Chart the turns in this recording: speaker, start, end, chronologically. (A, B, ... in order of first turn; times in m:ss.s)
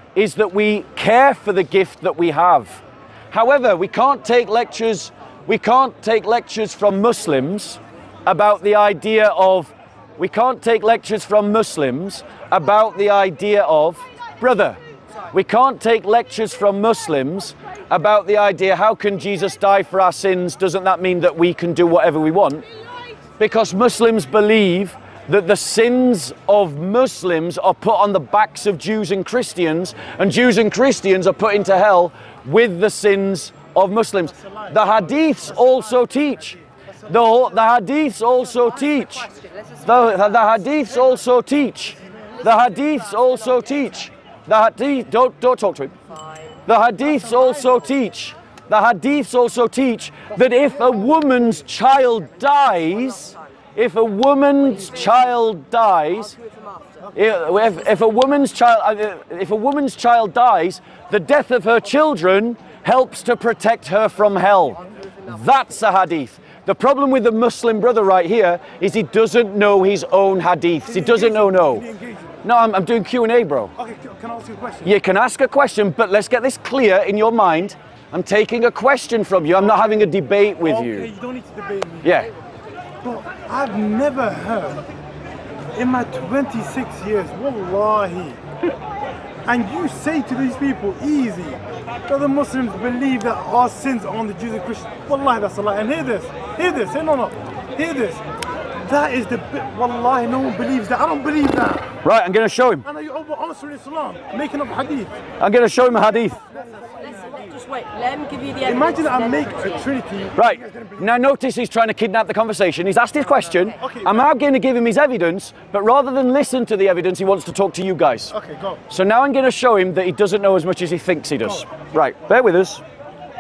0:00.1-0:14.8 A
0:15.3-0:22.6 A
0:23.4-0:45.9 A
0:34.3-0:35.8 B
0:37.0-0:37.6 B
0:46.6-0:56.4 A
0:47.0-0:47.8 B
0:50.3-0:51.5 B
0:57.1-1:11.8 A
1:10.8-1:12.4 B
1:12.4-1:13.7 A
1:13.8-1:14.9 B
1:14.8-1:21.1 A
1:19.6-1:20.1 B
1:20.6-1:22.1 B
1:22.0-1:22.3 A
1:23.0-1:24.8 B
1:25.7-1:28.4 B
1:29.4-1:38.2 B
1:38.8-1:42.0 B
1:42.0-1:42.8 A
1:42.8-1:45.1 B
1:45.4-1:46.4 A
1:47.2-1:49.5 C
1:48.6-1:51.1 B
1:50.4-1:58.3 A
1:53.8-1:54.3 B
1:58.3-1:58.8 B
1:58.9-2:02.8 A